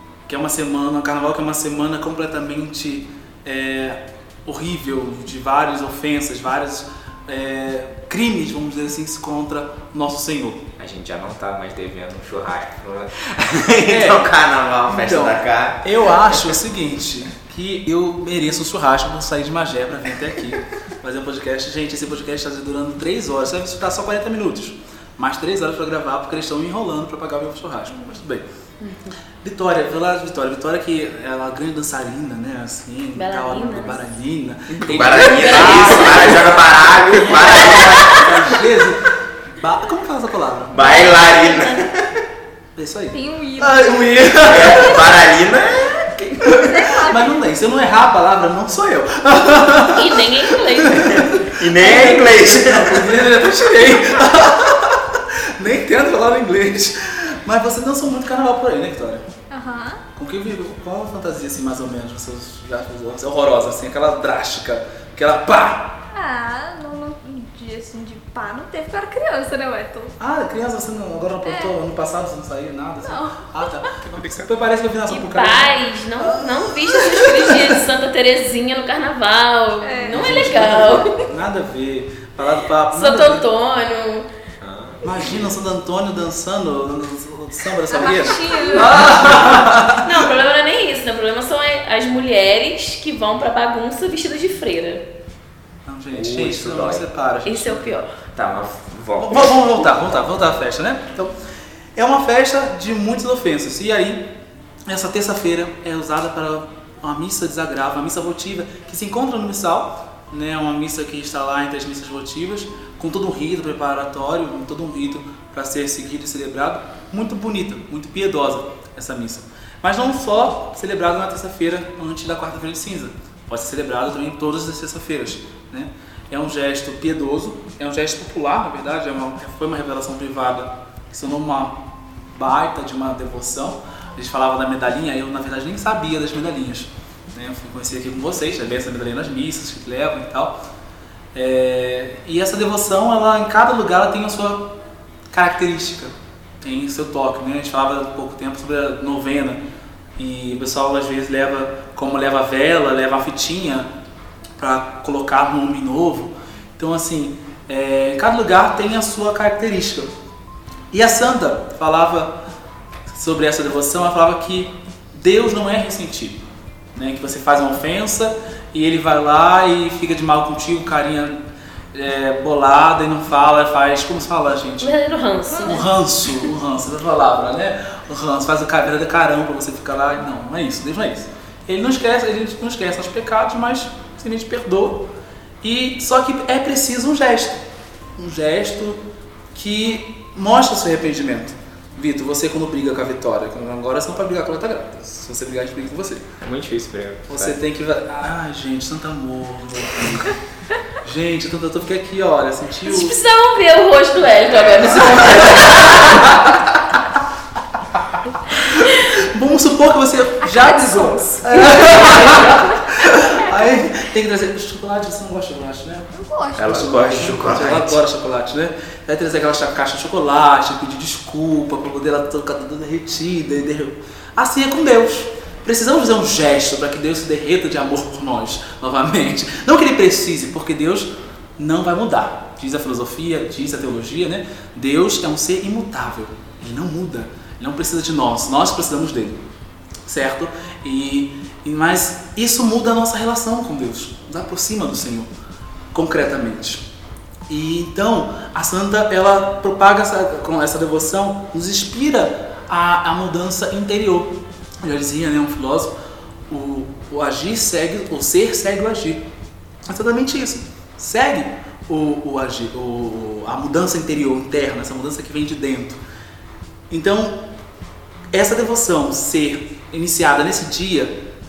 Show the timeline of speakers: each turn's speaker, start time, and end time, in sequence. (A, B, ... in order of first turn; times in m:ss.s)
0:00.3-0:10.7 A
0:10.8-0:16.5 B
0:13.8-0:14.3 A
0:14.9-0:28.4 A
0:28.8-0:29.2 C
0:29.4-0:41.0 A
0:33.2-0:34.0 C
0:34.7-0:38.3 B
0:35.1-0:36.5 C
0:37.6-0:38.3 C
0:40.7-0:42.2 B
0:40.8-0:41.9 C
0:42.8-0:45.1 A
0:43.1-0:47.4 D
0:44.4-0:46.3 B
0:46.4-0:59.3 A
0:49.9-0:51.3 C
0:50.9-0:53.2 B
0:59.5-1:00.0 D
1:00.2-1:06.0 A
1:06.1-1:10.2 D
1:10.2-1:17.8 A
1:11.4-1:11.7 D
1:13.0-1:13.9 D
1:14.2-1:14.5 B
1:15.1-1:21.2 C
1:19.8-1:21.2 D
1:20.1-1:23.5 A
1:22.9-1:24.3 C
1:24.6-1:25.3 B
1:25.0-1:30.3 A
1:27.9-1:29.3 D
1:30.0-1:35.1 C
1:35.8-1:37.9 A
1:36.1-1:37.0 B
1:37.4-1:38.2 C
1:38.4-1:39.6 B
1:39.2-1:41.3 A
1:42.0-1:44.3 A
1:44.9-2:20.6 A
2:21.3-2:24.8 A
2:25.3-2:29.6 A
2:30.2-2:33.9 A
2:34.6-2:40.1 A
2:40.9-2:42.4 A
2:43.1-2:51.4 A
2:51.9-2:55.0 A
2:54.8-2:55.9 C
2:55.5-2:55.8 D
2:55.6-3:05.1 A
3:05.6-3:07.6 A
3:08.2-3:09.0 A
3:09.5-3:16.3 A
3:16.4-3:17.6 B
3:17.3-3:20.4 A
3:21.0-3:23.2 A
3:22.8-3:26.4 C
3:24.8-3:26.7 A
3:28.0-3:59.4 A
3:30.4-3:32.9 D
3:36.1-3:36.8 D
3:36.6-3:38.0 B
4:00.1-4:05.3 A
4:05.9-4:06.8 A
4:07.5-4:15.9 A
4:16.5-4:19.2 A
4:19.8-4:26.0 A
4:26.9-4:27.5 A
4:28.3-4:31.2 A